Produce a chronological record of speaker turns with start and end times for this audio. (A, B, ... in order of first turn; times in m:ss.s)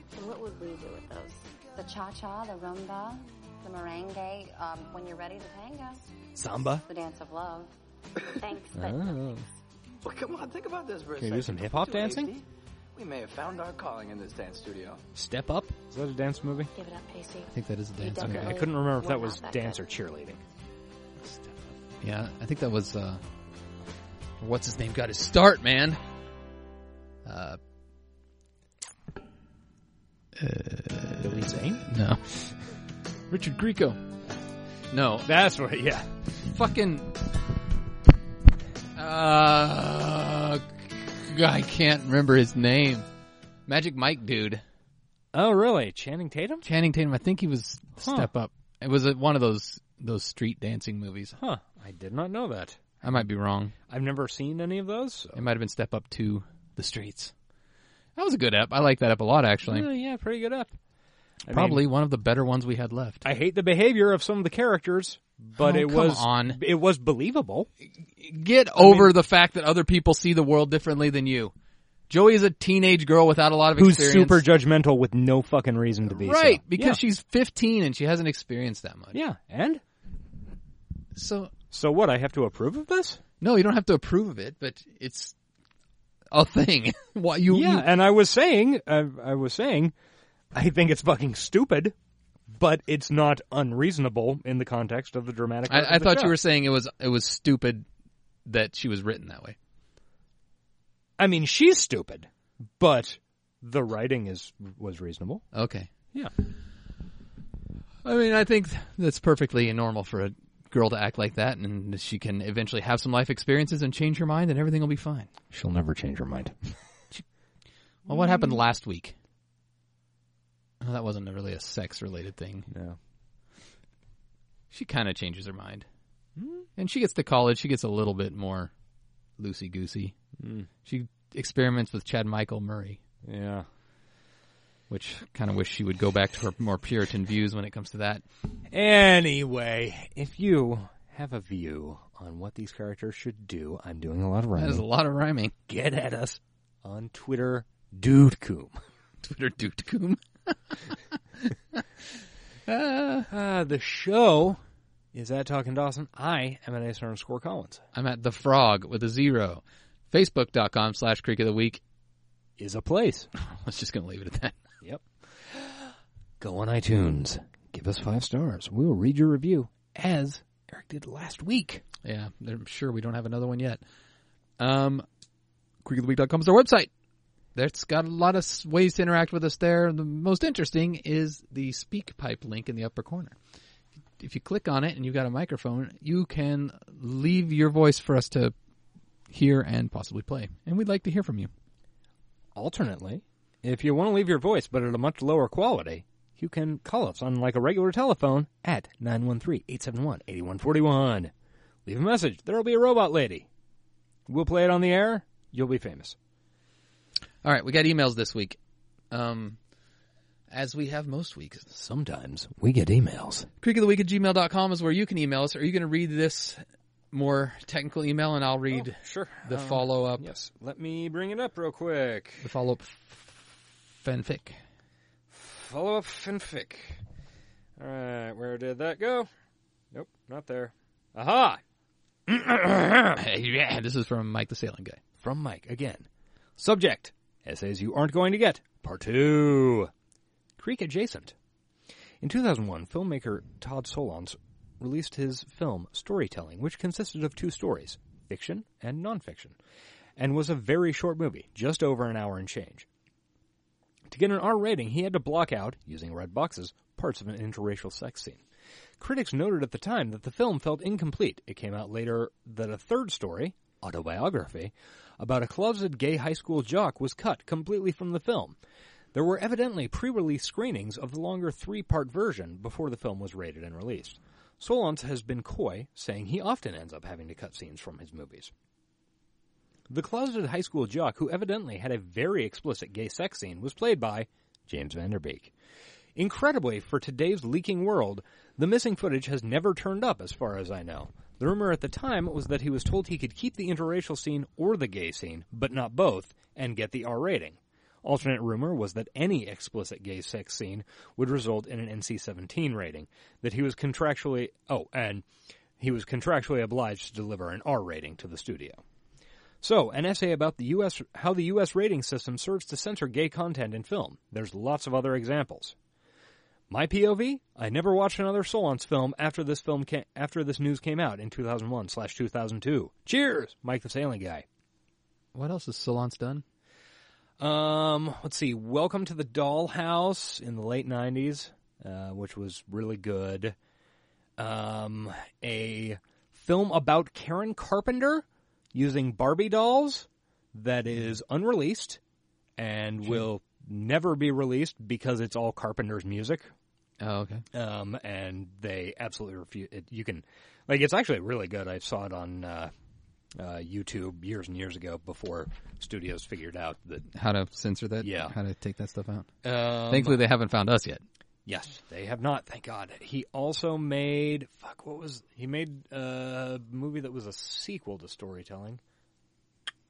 0:00.1-0:01.5 A
0:01.7-0:06.1 B
0:06.4-0:06.8 C
0:06.8-0:07.7 B
0:08.4-0:09.5 A
0:08.7-0:09.5 C
0:10.0-0:15.0 D
0:11.2-0:12.3 C
0:15.2-0:16.7 C
0:16.7-0:19.9 A
0:17.5-0:18.7 E
0:18.2-0:20.4 C
0:21.3-0:23.2 E
0:24.4-0:26.0 E
0:27.2-0:27.6 E
0:30.4-0:32.6 E
0:31.2-0:31.9 C
0:33.3-0:34.0 E
0:34.9-0:35.3 E
0:35.3-0:36.3 C
0:36.4-0:37.2 E
0:39.0-0:43.1 E
0:43.7-0:44.6 E
0:45.3-0:46.7 C
0:46.6-0:51.4 E
0:48.0-0:48.3 C
0:51.4-0:52.8 C
0:53.0-0:53.8 E
0:53.9-0:55.5 C
0:55.4-0:57.3 E
0:58.2-0:59.9 E
0:59.6-1:00.8 C
1:01.5-1:01.8 C
1:01.5-1:03.3 E
1:03.2-1:07.7 C
1:05.6-1:06.6 E
1:08.0-1:11.5 E
1:08.8-1:09.1 C
1:12.1-1:14.4 E
1:13.8-1:17.0 C
1:16.1-1:19.2 E
1:19.1-1:19.8 C
1:21.2-1:21.5 E
1:21.7-1:23.2 C
1:23.4-1:25.4 E
1:26.3-1:27.9 E
1:27.5-1:29.9 C
1:30.5-1:31.9 C
1:32.5-1:36.4 C
1:35.7-1:37.9 E
1:38.5-1:39.6 E
1:41.2-1:45.4 C
1:45.5-1:45.9 E
1:48.0-1:55.3 E
1:55.5-1:56.8 C
1:58.1-1:59.2 E
1:58.1-1:58.6 C
2:00.8-2:02.7 E
2:02.7-2:03.0 C
2:04.7-2:05.9 E
2:06.4-2:06.7 C
2:06.8-2:08.7 E
2:09.4-2:10.2 E
2:10.4-2:10.7 C
2:10.8-2:13.0 E
2:13.2-2:13.7 C
2:14.9-2:18.2 E
2:18.7-2:24.8 C
2:24.6-2:25.6 E
2:25.7-2:28.8 C
2:29.2-2:31.8 E
2:32.7-2:33.3 E
2:33.3-2:34.6 C
2:35.1-2:37.8 C
2:38.0-2:41.8 E
2:42.6-2:43.3 C
2:43.4-2:44.6 E
2:44.8-2:45.8 C
2:46.4-2:51.8 C
2:52.0-2:53.8 E
2:54.6-2:55.1 E
2:55.8-2:56.9 E
2:57.6-3:03.4 E
3:04.2-3:08.5 E
3:09.3-3:11.5 E
3:12.6-3:21.3 C
3:21.9-3:23.5 C
3:24.3-3:26.2 C
3:27.4-3:28.6 E
3:29.1-3:29.6 E
3:30.5-3:31.7 E
3:31.7-3:33.5 C
3:33.6-3:40.3 E
3:38.7-3:42.5 C
3:42.4-3:44.6 E
3:45.3-3:47.0 C
3:47.8-3:49.3 C
3:49.9-3:51.6 C
3:52.3-3:53.2 C
3:53.2-3:55.0 E
3:55.2-3:56.1 C
3:56.6-3:59.9 C
4:00.6-4:01.4 C
4:02.2-4:09.6 C
4:10.2-4:12.9 C
4:14.1-4:18.4 C
4:19.0-4:28.6 C
4:29.1-4:38.5 C
4:39.9-4:45.5 C
4:46.2-5:05.2 C
5:05.8-5:08.8 C
5:09.6-5:15.8 C
5:16.7-5:24.4 C
5:25.3-5:26.4 E
5:27.4-5:33.6 C
5:34.4-5:42.0 C
5:42.6-5:46.5 C
5:47.0-5:47.4 E
5:47.5-5:52.7 C
5:53.4-5:57.1 C
5:57.1-6:01.0 E
5:58.0-5:58.3 C
5:59.4-6:00.2 C
6:01.5-6:08.8 C